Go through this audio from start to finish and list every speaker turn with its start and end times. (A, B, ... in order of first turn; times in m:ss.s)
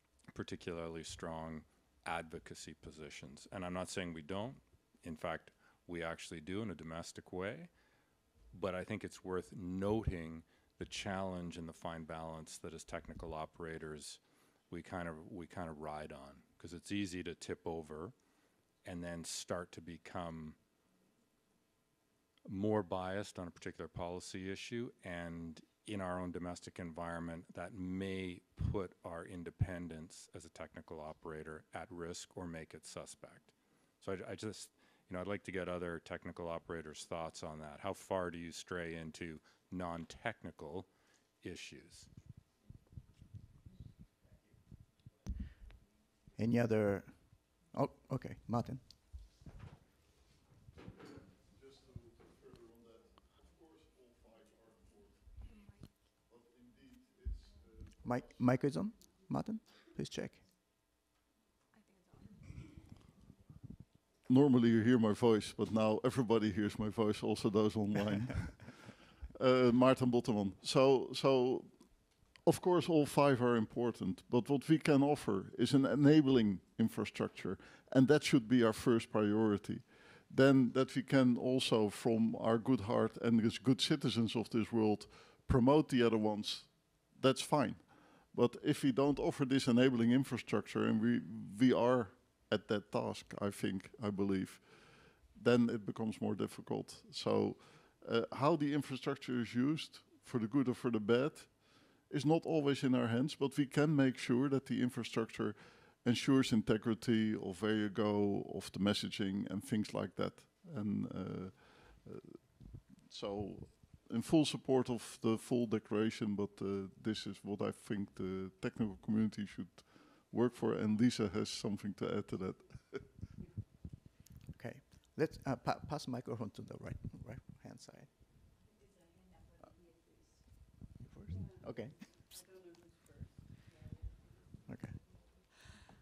0:00.3-0:07.7 A
0:08.5-0:14.2 A
0:14.7-0:18.1 A
0:18.8-0:20.6 A
0:22.4-0:40.9 A
0:41.4-0:42.1 A
0:46.4-0:48.8 B
0:54.0-0:54.3 C
0:56.5-0:57.4 C
0:58.0-1:00.4 B
1:04.3-1:08.8 C
1:09.4-2:03.0 C
2:04.6-2:08.1 B
2:11.0-2:12.0 B
2:14.7-2:15.0 B